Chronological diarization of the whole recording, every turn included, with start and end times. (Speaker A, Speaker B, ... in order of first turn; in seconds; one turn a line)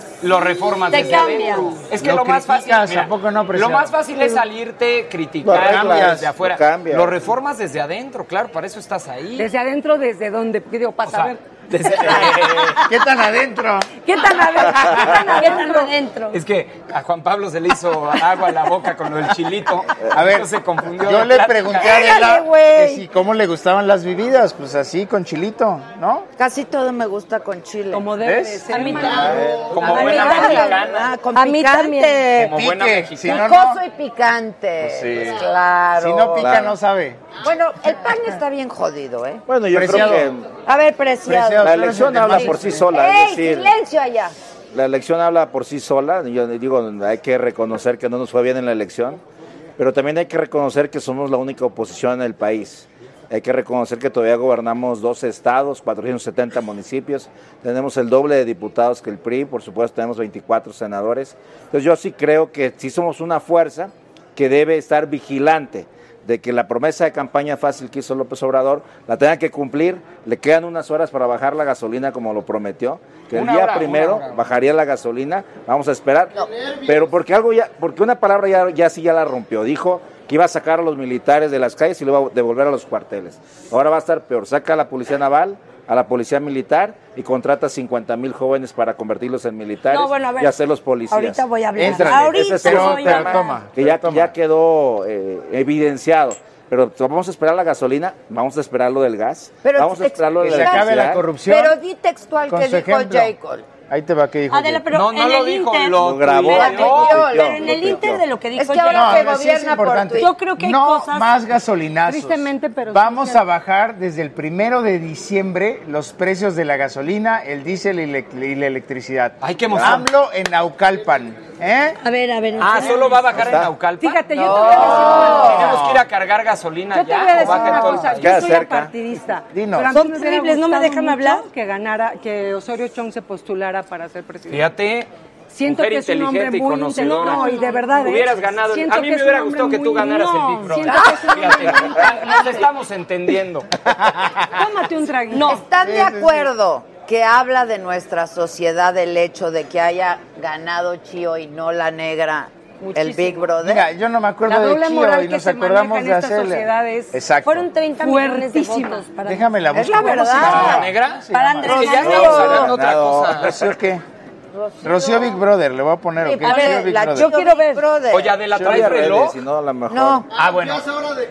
Speaker A: 0.2-9.5
Speaker B: 0.9-1.8
Speaker C: 1.9-4.0
Speaker D: 5.4-7.2
Speaker C: 5.5-6.4
Speaker E: 9.4-11.4
Speaker A: 11.1-12.8
Speaker C: 12.9-13.9
Speaker E: 14.0-15.9
Speaker B: 14.1-16.4
Speaker A: 16.3-21.9
Speaker C: 20.1-20.5
Speaker C: 21.0-26.3
Speaker F: 21.8-23.0
Speaker F: 26.4-28.1
Speaker E: 27.9-29.4
Speaker C: 28.2-30.5
Speaker B: 28.7-30.8
Speaker F: 29.0-32.5
Speaker D: 29.4-29.7
Speaker A: 29.7-31.1
Speaker B: 31.3-32.2
Speaker C: 32.3-33.8
Speaker A: 32.3-33.4
Speaker F: 33.2-36.7
Speaker C: 35.0-35.3
Speaker C: 36.0-37.3
Speaker D: 36.4-36.7
Speaker F: 37.4-39.4
Speaker D: 39.5-40.5
Speaker C: 39.7-40.3
Speaker F: 40.6-44.3
Speaker C: 41.2-42.9
Speaker D: 41.6-43.7
Speaker D: 44.7-49.2
Speaker D: 49.8-101.3
Speaker A: 73.3-74.4
Speaker B: 89.9-93.5
Speaker C: 91.7-94.3
Speaker F: 99.6-103.7
Speaker C: 100.4-101.8
Speaker C: 102.5-103.3
Speaker C: 103.9-104.9
Speaker B: 104.5-109.4
Speaker A: 104.9-107.2
Speaker D: 106.0-108.2
Speaker F: 106.4-110.3
Speaker C: 108.9-122.0
Speaker B: 110.2-111.3
Speaker E: 112.0-113.4
Speaker A: 119.4-120.1
Speaker B: 122.0-123.4
Speaker A: 122.6-124.6
Speaker D: 123.4-123.7
Speaker E: 124.0-125.6
Speaker F: 124.3-125.8
Speaker C: 125.3-126.0
Speaker A: 125.4-128.3
Speaker E: 126.9-134.7
Speaker C: 127.4-128.1
Speaker D: 128.0-128.9
Speaker C: 129.5-129.9
Speaker B: 129.9-131.4
Speaker A: 134.5-135.1
Speaker E: 135.5-142.1
Speaker A: 135.6-143.7
Speaker B: 137.4-137.7
Speaker F: 140.9-141.7
Speaker E: 144.6-145.6
Speaker B: 145.3-145.6
Speaker F: 145.5-153.9
Speaker C: 145.8-146.5
Speaker C: 153.6-157.7
Speaker E: 154.5-157.2
Speaker B: 157.4-159.4
Speaker E: 158.0-159.1
Speaker C: 159.2-162.6
Speaker F: 159.7-160.9
Speaker B: 160.0-160.7
Speaker A: 160.4-163.5
Speaker B: 161.3-162.7
Speaker F: 161.6-162.8
Speaker D: 161.9-163.6
Speaker C: 163.4-164.0
Speaker F: 164.8-165.3
Speaker C: 164.8-167.4
Speaker F: 166.2-168.4
Speaker B: 166.4-167.8
Speaker A: 168.1-169.4
Speaker D: 168.5-170.2
Speaker F: 169.9-170.3
Speaker A: 170.4-170.9